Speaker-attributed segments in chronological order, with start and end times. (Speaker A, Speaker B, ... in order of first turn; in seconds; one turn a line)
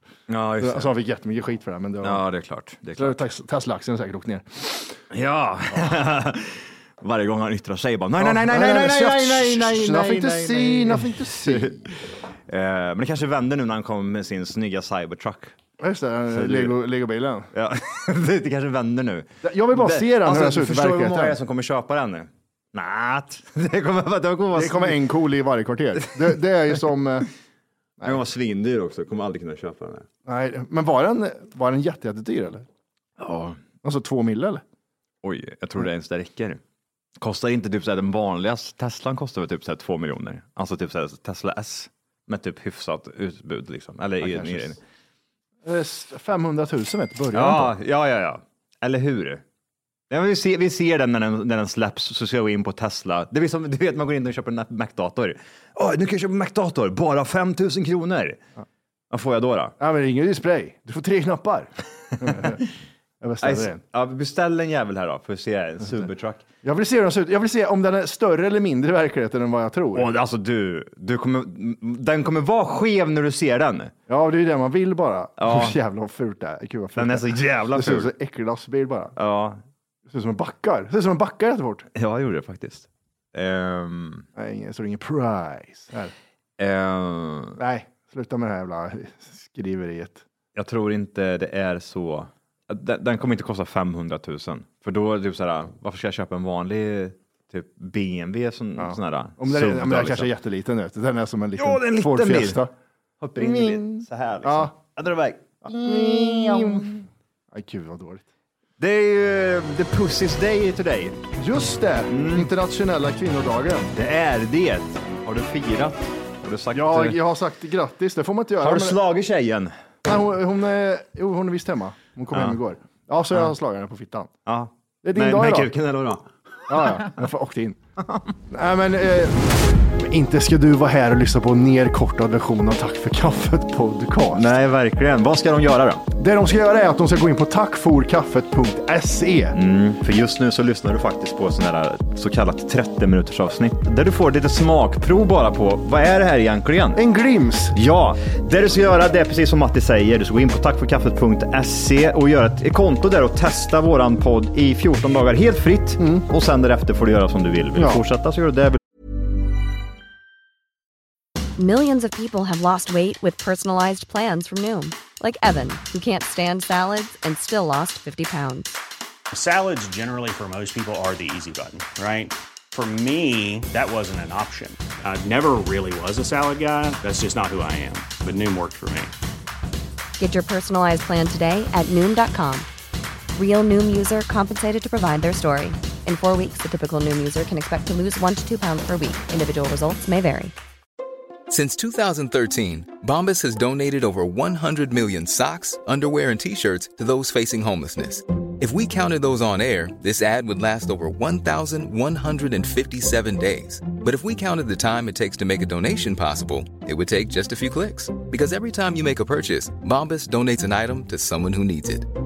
Speaker A: 0.3-0.9
Speaker B: 0.6-2.2
Speaker A: 2.0-3.2
Speaker B: 3.0-5.0
Speaker A: 5.1-15.6
Speaker B: 8.2-11.8
Speaker B: 15.8-17.5
Speaker A: 16.3-16.8
Speaker A: 17.5-25.1
Speaker B: 19.4-21.4
Speaker B: 24.5-27.3
Speaker A: 26.0-26.4
Speaker A: 28.0-30.1
Speaker B: 30.3-32.7
Speaker A: 33.2-33.6
Speaker B: 33.8-34.6
Speaker A: 35.2-36.6
Speaker A: 37.2-44.8
Speaker B: 44.2-44.8
Speaker B: 45.6-47.8
Speaker A: 47.3-49.4
Speaker A: 50.1-58.4
Speaker A: 59.1-59.8
Speaker B: 59.8-62.6
Speaker A: 62.2-62.6
Speaker B: 63.2-63.8
Speaker A: 63.4-66.4
Speaker B: 66.6-70.1
Speaker A: 69.9-73.9
Speaker B: 74.1-79.1
Speaker A: 75.4-75.8
Speaker A: 77.0-78.1
Speaker A: 79.2-79.6
Speaker B: 80.1-81.9
Speaker A: 82.0-84.3
Speaker B: 84.4-86.1
Speaker A: 86.6-87.6
Speaker B: 87.6-90.2
Speaker A: 90.5-100.3
Speaker B: 98.8-102.7
Speaker A: 101.6-102.6
Speaker A: 103.2-106.9
Speaker B: 103.4-104.7
Speaker B: 105.6-108.3
Speaker A: 108.8-111.2
Speaker B: 111.4-113.9
Speaker A: 112.1-112.5
Speaker A: 114.0-117.2
Speaker B: 116.7-119.0
Speaker A: 118.6-119.7
Speaker B: 120.0-124.3
Speaker A: 122.3-122.6
Speaker A: 124.5-127.2
Speaker B: 125.0-125.7
Speaker B: 126.7-127.8
Speaker B: 128.5-134.5
Speaker A: 134.3-136.1
Speaker B: 136.2-139.6
Speaker A: 139.5-147.0
Speaker B: 146.9-147.8
Speaker A: 147.7-158.8
Speaker B: 156.0-156.2
Speaker B: 157.8-158.0
Speaker C: 161.6-168.7
Speaker D: 169.3-179.1
Speaker C: 180.2-182.7
Speaker C: 183.4-190.5
Speaker E: 191.5-212.1